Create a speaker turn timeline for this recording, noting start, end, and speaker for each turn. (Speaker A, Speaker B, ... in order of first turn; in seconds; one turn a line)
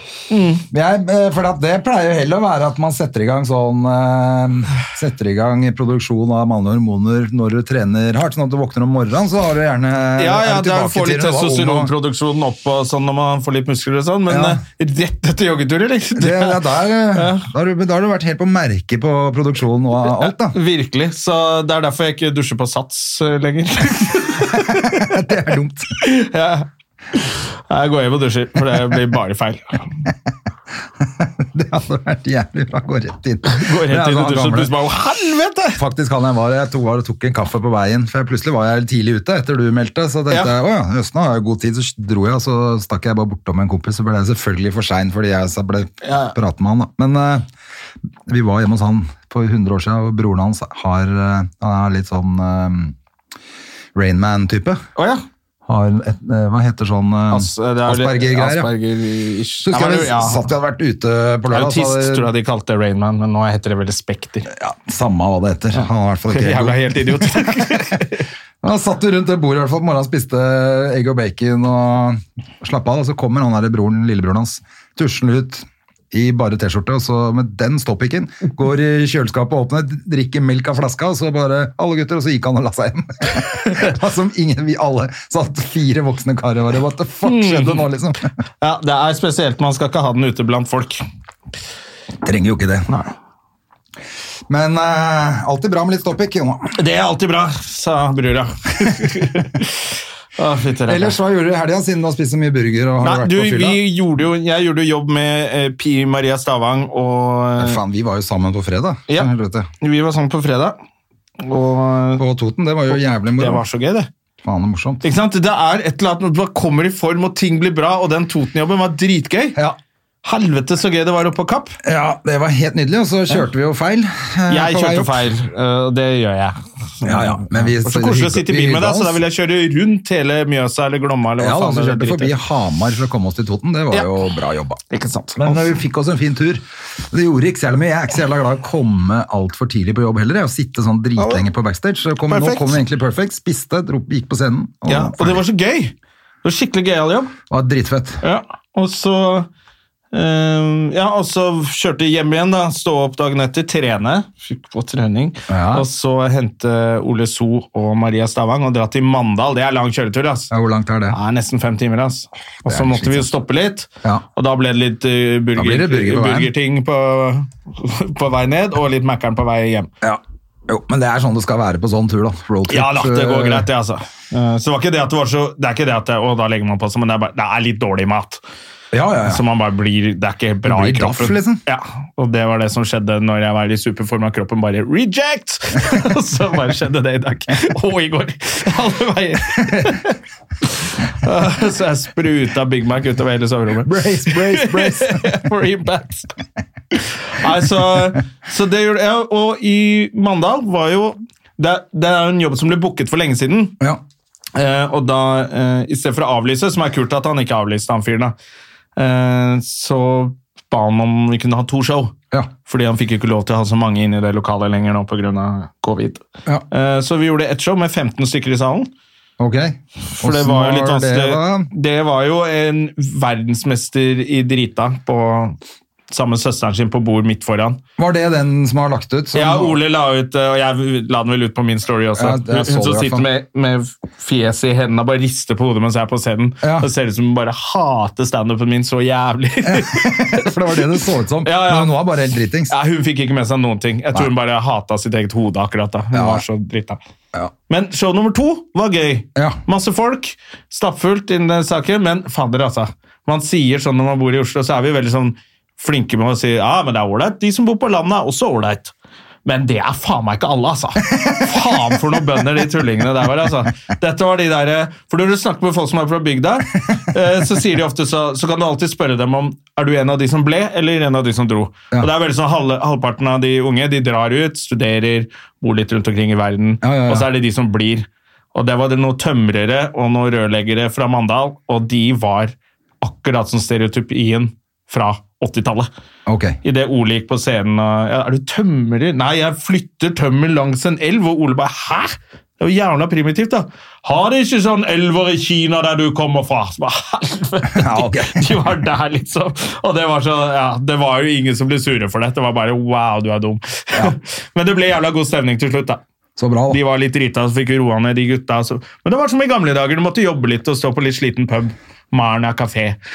Speaker A: 0.3-0.7
Speaker B: 0.7-11.9
Speaker A: 10.2-17.5
Speaker B: 14.3-14.6
Speaker B: 16.2-20.6
Speaker A: 20.2-25.1
Speaker B: 24.5-26.0
Speaker A: 26.0-29.8
Speaker B: 31.0-34.7
Speaker A: 33.5-35.8
Speaker B: 35.8-47.5
Speaker A: 46.0-46.4
Speaker B: 48.3-53.0
Speaker B: 54.0-54.8
Speaker A: 55.0-55.2
Speaker B: 55.7-58.7
Speaker A: 57.3-60.4
Speaker B: 59.6-62.3
Speaker A: 61.5-64.5
Speaker B: 64.5-68.0
Speaker A: 65.8-68.3
Speaker B: 68.6-88.3
Speaker A: 87.2-87.8
Speaker A: 88.6-91.0
Speaker B: 92.2-92.9
Speaker A: 92.9-93.1
Speaker B: 94.5-96.8
Speaker A: 96.7-101.2
Speaker B: 99.1-99.4
Speaker B: 100.9-103.8
Speaker A: 103.0-107.8
Speaker B: 107.6-109.7
Speaker A: 109.8-110.8
Speaker A: 111.4-112.2
Speaker B: 112.2-113.6
Speaker A: 113.4-114.1
Speaker B: 114.4-115.0
Speaker A: 115.0-119.6
Speaker A: 120.2-121.8
Speaker B: 121.8-125.3
Speaker A: 124.5-132.4
Speaker B: 127.0-129.2
Speaker B: 131.4-134.8
Speaker A: 134.9-135.6
Speaker B: 135.4-145.4
Speaker A: 141.2-141.5
Speaker A: 142.3-142.8
Speaker A: 144.9-147.4
Speaker B: 147.5-148.2
Speaker A: 148.2-149.5
Speaker A: 150.1-160.5
Speaker B: 155.5-155.9
Speaker B: 160.5-161.2
Speaker A: 161.1-169.9
Speaker B: 162.7-163.3
Speaker B: 165.6-166.5
Speaker B: 170.0-173.7
Speaker A: 172.7-178.4
Speaker B: 178.9-179.4
Speaker A: 179.2-196.3
Speaker B: 180.7-181.6
Speaker B: 193.8-195.4
Speaker A: 196.9-203.8
Speaker A: 204.6-208.3
Speaker A: 209.0-218.9
Speaker B: 219.4-221.7
Speaker A: 220.1-225.6
Speaker A: 226.1-227.8
Speaker B: 228.0-229.8
Speaker A: 229.3-241.9
Speaker B: 232.2-233.3
Speaker B: 236.6-236.9
Speaker B: 239.6-242.7
Speaker A: 242.7-247.0
Speaker B: 246.1-246.4
Speaker A: 247.7-258.9
Speaker A: 259.4-285.9
Speaker B: 261.1-262.1
Speaker B: 276.8-277.3
Speaker B: 286.3-286.6
Speaker A: 286.6-306.0
Speaker B: 297.7-298.7
Speaker B: 306.4-306.8
Speaker A: 306.7-313.0